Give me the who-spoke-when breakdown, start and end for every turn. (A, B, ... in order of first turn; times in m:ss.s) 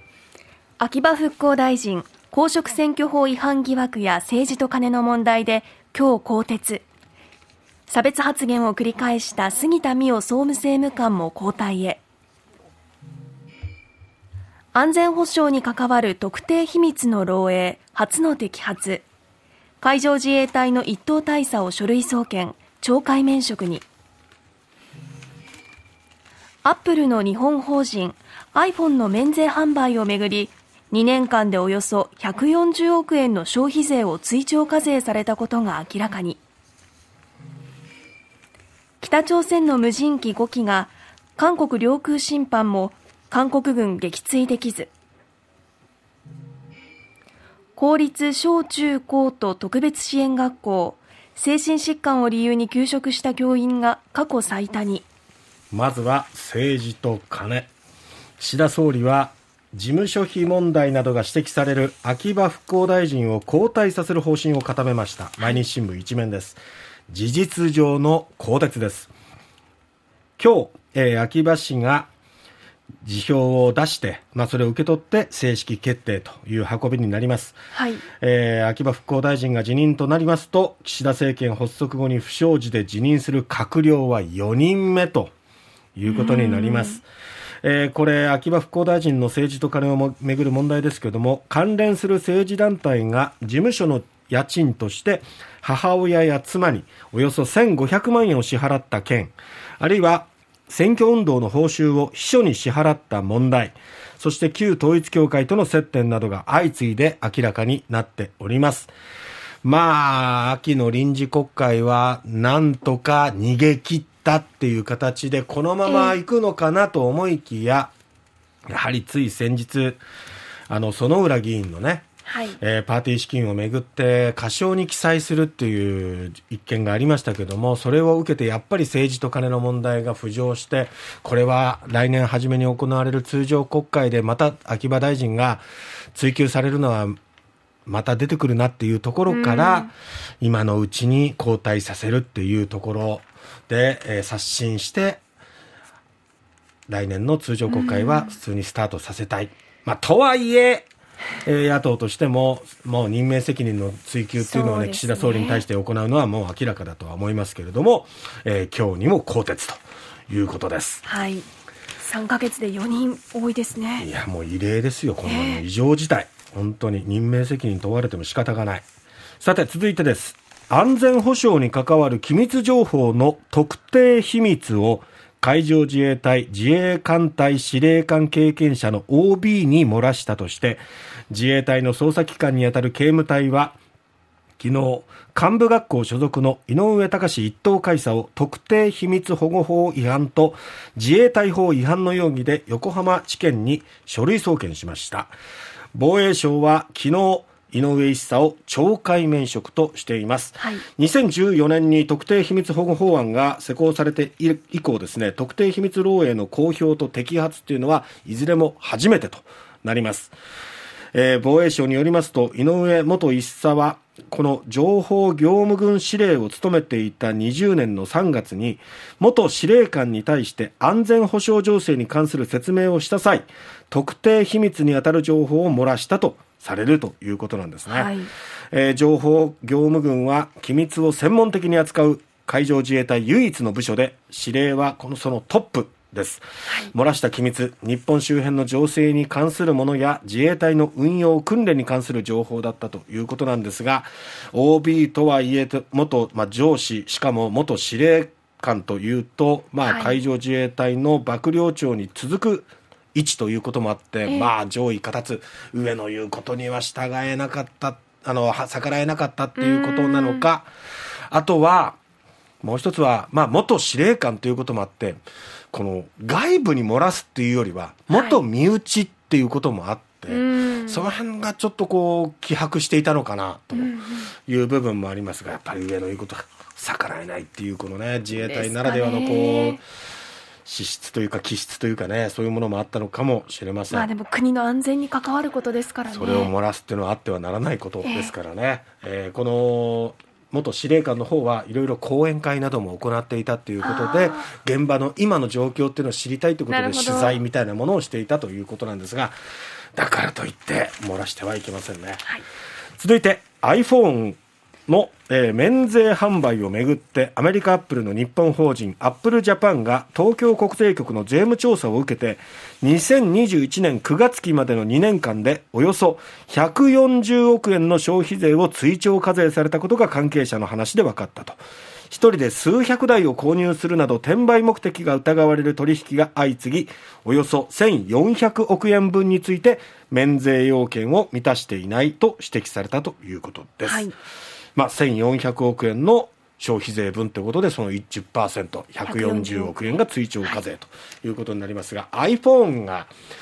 0:00.8-0:06.8 A
0:07.9-0:12.0 A
0:14.7-0:19.0 A
0:19.8-0:23.8 A
0:26.6-0:36.4 A
0:39.0-0:44.9 A
0:47.8-0:55.1 A
0:55.7-0:57.7 B
0:58.4-1:09.1 B
1:10.4-1:12.1 B
1:13.0-1:17.6 B
1:17.7-1:18.0 A
1:18.1-1:25.3 B
1:26.0-1:27.0 B
1:26.1-1:27.0 A
1:27.6-1:48.9 B
1:49.6-1:57.9 B
1:55.8-1:56.2 A
1:58.6-2:00.0 B
2:00.7-2:02.0 B
2:02.3-2:02.6 A
2:02.6-2:15.6 B
2:16.1-2:17.2 B
2:17.8-2:25.2 B
2:19.3-2:19.9 A
2:26.9-2:30.9 B
2:27.7-2:28.3 A
2:31.4-2:41.0 B
2:34.4-2:35.6 A
2:41.0-2:41.4 A
2:42.0-2:44.1 A
2:44.0-2:48.8 B
2:45.2-2:45.6 A
2:49.4-3:03.8 B
3:04.6-3:15.3 B
3:15.9-3:30.3 B
3:31.1-3:48.1 B
3:47.9-3:48.3 A
3:48.7-4:20.7 B
4:09.8-4:10.2 A
4:19.6-4:20.4 A
4:21.3-4:22.0 B
4:22.6-4:33.9 B
4:28.1-4:28.4 A
4:30.3-4:31.0 A
4:33.7-4:34.3 A
4:34.4-4:39.8 B
4:38.3-4:39.8 A
4:40.6-4:44.1 B
4:43.9-4:46.5 A
4:46.1-4:59.3 B
4:48.0-4:48.3 A
4:53.8-4:54.5 A
4:56.7-4:57.4 A
5:00.0-5:02.3 B
5:03.0-5:21.6 B
5:22.1-5:34.1 B
5:33.8-5:34.1 A
5:34.8-5:43.1 B
5:39.0-5:39.7 A